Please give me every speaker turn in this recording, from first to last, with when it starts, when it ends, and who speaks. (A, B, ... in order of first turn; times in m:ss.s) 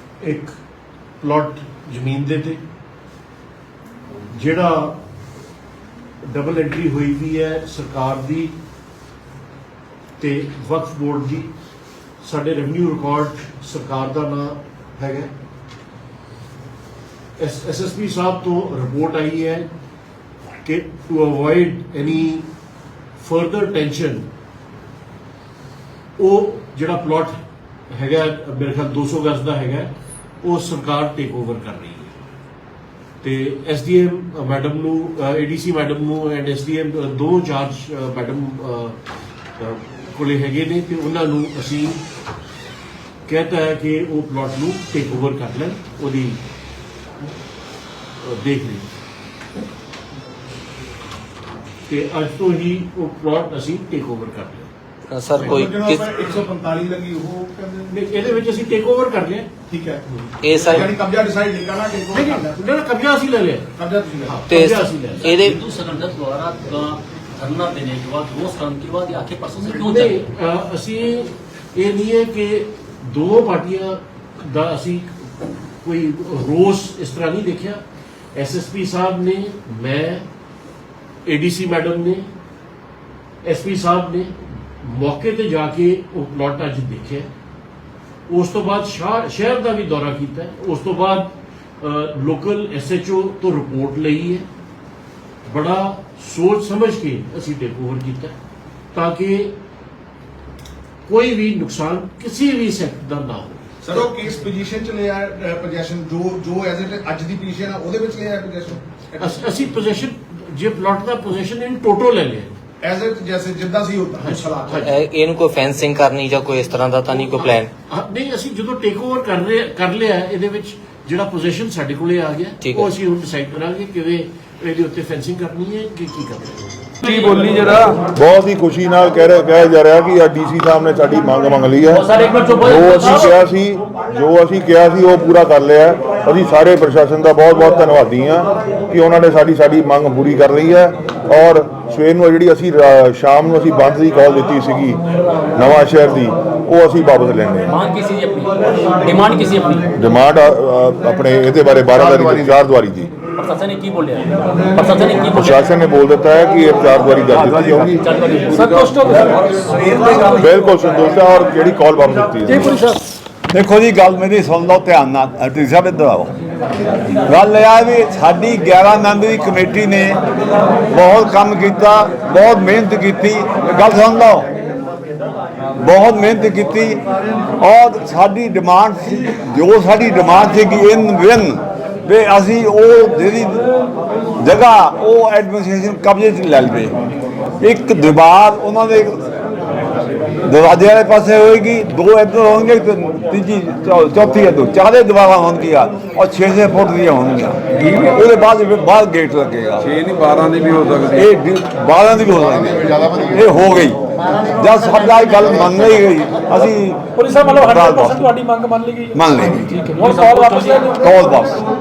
0:00.2-0:00.5 A
0:01.2-0:02.6 A
0:04.4-0:05.0 A
0:06.3-0:08.5 A
0:10.2-0:11.5 A
0:12.2-0:15.3 A
0:17.4-0:19.7 A
0:20.6-0:22.5 A
0:23.2-0:24.3 A
0:26.2-0:27.4 A
0:27.9-0:29.9 A
0:30.4-0:32.1 A
0:33.2-0:39.0 A
0:39.6-0:42.0 A
0:43.2-0:46.4 A
0:48.2-0:48.9 A
0:51.9-0:54.7 A
0:55.1-0:56.0 B
0:55.3-0:55.8 A
0:55.4-0:58.1 C
0:57.9-0:59.5 A
0:59.7-1:00.0 C
1:00.4-1:00.8 B
1:00.6-1:02.6 C
1:02.1-1:03.7 A
1:03.8-1:04.5 C
1:04.2-1:05.5 A
1:04.5-1:05.6 B
1:05.4-1:10.1 D
1:09.6-1:15.1 A
1:15.8-1:17.8 A
1:18.3-1:20.3 A
1:21.2-1:22.3 A
1:23.4-1:27.3 A
1:28.3-1:34.5 A
1:35.4-1:38.4 A
1:38.9-1:39.5 A
1:41.1-1:44.1 A
1:43.8-1:49.6 C
1:49.2-1:52.6 A
1:52.8-1:54.9 C
1:54.2-1:54.9 A
1:54.8-1:57.7 B
1:57.9-2:06.9 A
2:02.6-2:02.9 B
2:07.0-2:07.5 D
2:07.0-2:08.0 E
2:08.1-2:12.0 F
2:11.9-2:13.4 D
2:12.6-2:25.0 F
2:25.5-2:27.8 F
2:27.7-2:29.8 D
2:30.0-2:33.1 F
2:33.4-2:35.6 D
2:35.3-2:38.0 F
2:37.3-2:38.0 G
2:38.0-2:39.5 D
2:38.5-2:40.3 G
2:38.6-2:39.1 H
2:40.3-2:42.8 F
2:42.5-2:42.8 D
2:43.5-2:46.3 G
2:47.2-2:50.2 G
2:50.9-2:54.5 G
2:55.8-2:57.0 G
2:57.6-3:03.6 G
3:04.4-3:06.9 G
3:07.6-3:09.2 G
3:10.4-3:20.0 G
3:17.9-3:18.1 E
3:19.8-3:21.2 E
3:21.1-3:28.3 G
3:27.3-3:29.0 H
3:29.1-3:29.9 G
3:29.9-3:30.9 H
3:29.9-3:30.9 D
3:31.0-3:31.6 G